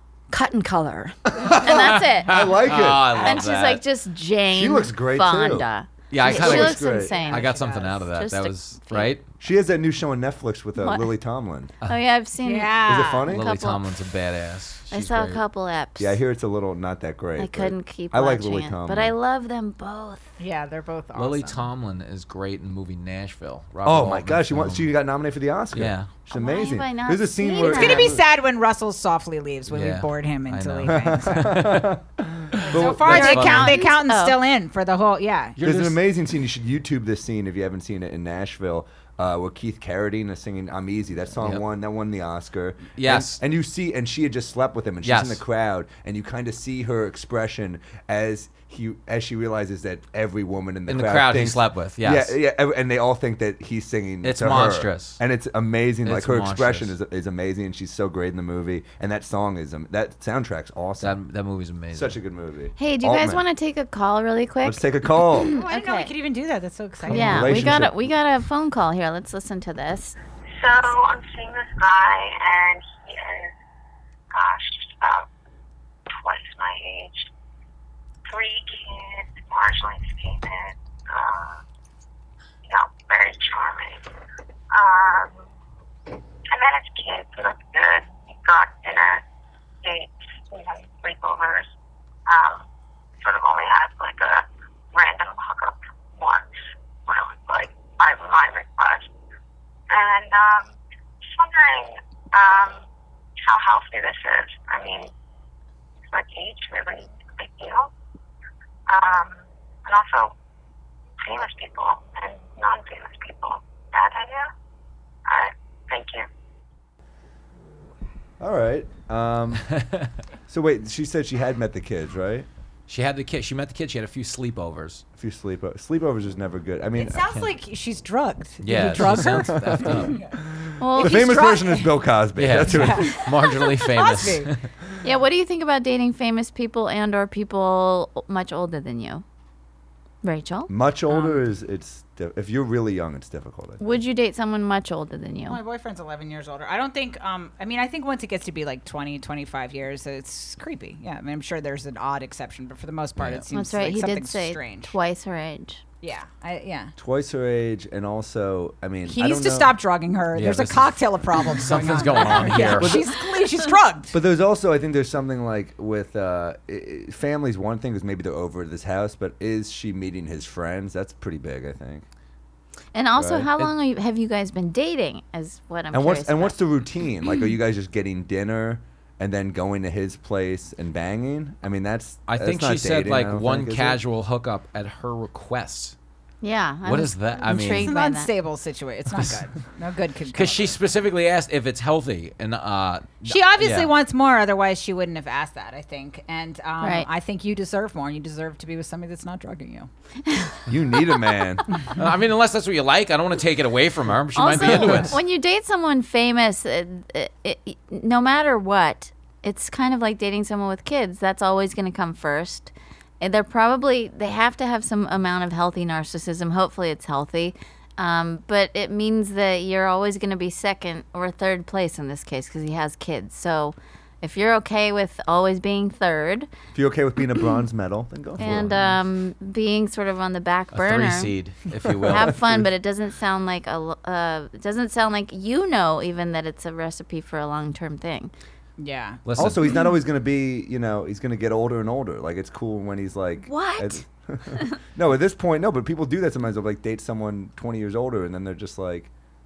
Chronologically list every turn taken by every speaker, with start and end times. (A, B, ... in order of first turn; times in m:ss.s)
0:00.3-0:02.5 A
0:01.4-0:03.4 B
0:02.3-0:03.8 C
0:03.1-0:09.1 A
0:04.5-0:05.7 B
0:06.1-0:09.2 C
0:06.2-0:07.1 B
0:07.0-0:08.0 D
0:09.4-0:11.7 B
0:10.8-0:11.1 A
0:11.9-0:13.8 A
0:12.4-0:13.3 D
0:12.9-0:13.5 B
0:13.3-0:15.4 C
0:14.9-0:16.2 A
0:16.0-0:19.1 B
0:17.4-0:20.2 A
0:20.4-0:21.7 D
0:21.2-0:24.9 C
0:23.8-0:28.2 B
0:25.7-0:26.1 C
0:26.3-0:28.2 A
0:27.6-0:31.8 D
0:29.7-0:32.0 C
0:30.9-0:33.4 B
0:32.5-0:33.8 C
0:32.6-0:35.6 D
0:33.0-0:34.4 A
0:35.6-0:36.0 C
0:35.6-1:01.2 B
0:43.0-0:43.4 C
0:45.0-0:45.4 C
0:50.9-0:52.3 C
0:54.2-0:55.2 C
0:56.0-0:56.9 C
1:01.0-1:02.2 C
1:01.9-1:03.4 B
1:02.8-1:04.8 A
1:04.6-1:05.5 B
1:05.4-1:06.1 A
1:05.5-1:07.8 D
1:07.1-1:10.2 A
1:07.1-1:07.9 B
1:07.4-1:07.7 C
1:10.5-1:13.5 E
1:14.3-1:15.3 E
1:16.1-1:17.3 E
1:18.3-1:21.6 E
1:22.7-1:24.0 E
1:24.7-1:25.4 E
1:26.5-1:29.2 E
1:29.8-1:31.7 E
1:32.3-1:32.6 E
1:33.2-1:36.5 E
1:37.1-1:39.1 E
1:39.9-1:40.7 E
1:41.3-1:42.8 E
1:43.4-1:45.1 E
1:46.1-1:47.9 E
1:48.9-1:50.3 E
1:51.2-1:54.5 E
1:55.3-1:56.3 E
1:58.4-1:59.7 B
1:59.8-2:00.1 C
2:00.5-2:02.5 B
2:02.9-2:05.0 C
2:05.2-2:07.3 B
2:07.0-2:10.4 D
2:08.6-2:10.2 C
2:09.0-2:13.2 B
2:10.8-2:11.6 A
2:10.9-2:11.9 D
2:12.4-2:14.7 C
2:12.6-2:14.6 D
2:13.3-2:13.7 A
2:15.0-2:19.2 A
2:20.2-2:20.7 A
2:20.7-2:23.8 B
2:21.1-2:21.4 D
2:23.8-2:25.6 A
2:25.5-2:35.0 D
2:33.2-2:33.5 C
2:33.5-2:35.8 A
2:36.0-2:36.9 D
2:37.0-2:39.8 B
2:39.1-2:44.2 D
2:40.3-2:43.0 C
2:42.2-2:42.8 A
2:42.8-2:43.1 B
2:44.1-2:52.0 B
2:52.9-2:56.6 A
2:53.2-2:53.7 B
2:55.9-3:04.0 B
3:02.3-3:06.0 C
3:06.4-3:08.3 A
3:06.8-3:07.9 C
3:07.6-3:10.7 D
3:10.3-3:13.9 C
3:13.2-3:19.9 D
3:16.8-3:17.1 A
3:20.3-3:21.2 A
3:20.7-3:21.6 B
3:22.0-3:25.2 C
3:24.4-3:46.5 A
3:46.8-3:48.7 B
3:48.4-3:49.0 C
3:48.4-3:51.3 A
3:50.7-3:52.4 C
3:51.8-3:52.7 B
3:52.1-3:58.3 A
3:58.8-3:59.2 D
3:59.3-3:59.6 C
3:59.4-4:09.1 B
4:03.5-4:04.0 A